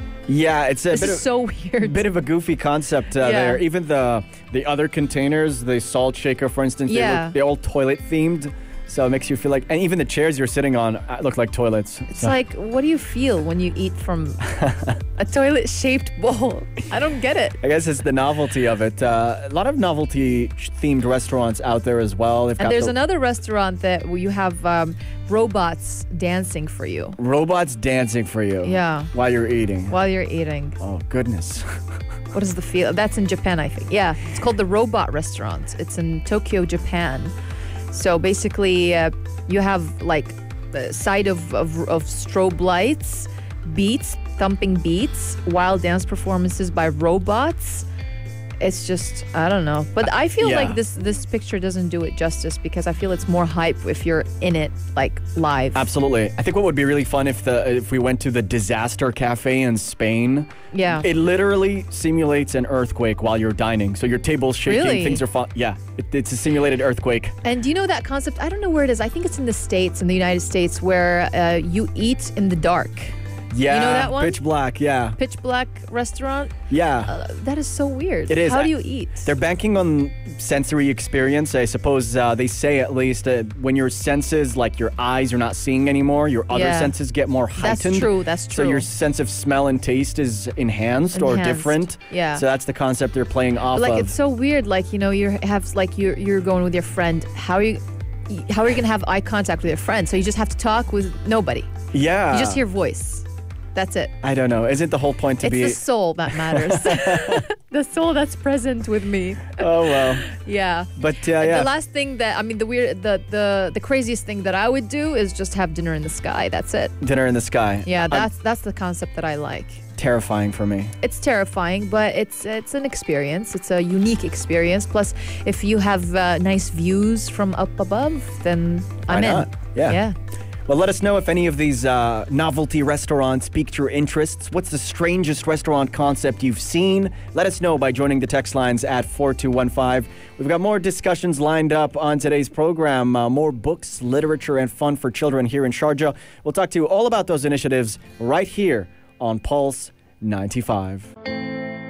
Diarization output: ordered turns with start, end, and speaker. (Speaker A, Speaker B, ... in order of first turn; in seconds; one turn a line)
Speaker A: 0.3-1.3
Speaker B: 0.9-2.0
Speaker A: 1.8-12.3
Speaker B: 3.2-3.6
Speaker B: 6.9-7.4
Speaker B: 12.1-14.5
Speaker A: 14.5-14.9
Speaker B: 15.2-17.6
Speaker A: 17.6-22.9
Speaker B: 22.6-27.2
Speaker A: 27.2-30.0
Speaker B: 28.6-29.1
Speaker B: 29.9-30.8
Speaker A: 30.8-32.0
Speaker B: 32.3-37.3
Speaker B: 37.9-47.9
Speaker B: 48.6-55.9
Speaker A: 50.4-50.8
Speaker A: 55.8-67.3
Speaker B: 60.7-61.1
Speaker B: 64.6-65.2
Speaker B: 67.5-73.2
Speaker A: 73.5-75.2
Speaker B: 73.7-74.4
Speaker B: 75.2-76.5
Speaker A: 76.7-77.1
Speaker B: 77.1-79.3
Speaker A: 78.3-94.1
Speaker B: 86.5-87.0
Speaker B: 87.6-88.9
Speaker B: 91.1-92.4
Speaker B: 93.7-101.7
Speaker A: 101.9-102.6
Speaker B: 102.3-104.1
Speaker A: 104.2-107.4
Speaker B: 105.4-116.9
Speaker A: 109.6-110.3
Speaker A: 111.0-111.7
Speaker A: 117.0-118.3
Speaker B: 117.8-119.8
Speaker A: 120.0-121.0
Speaker B: 121.0-130.2
Speaker A: 129.1-130.0
Speaker A: 130.7-151.1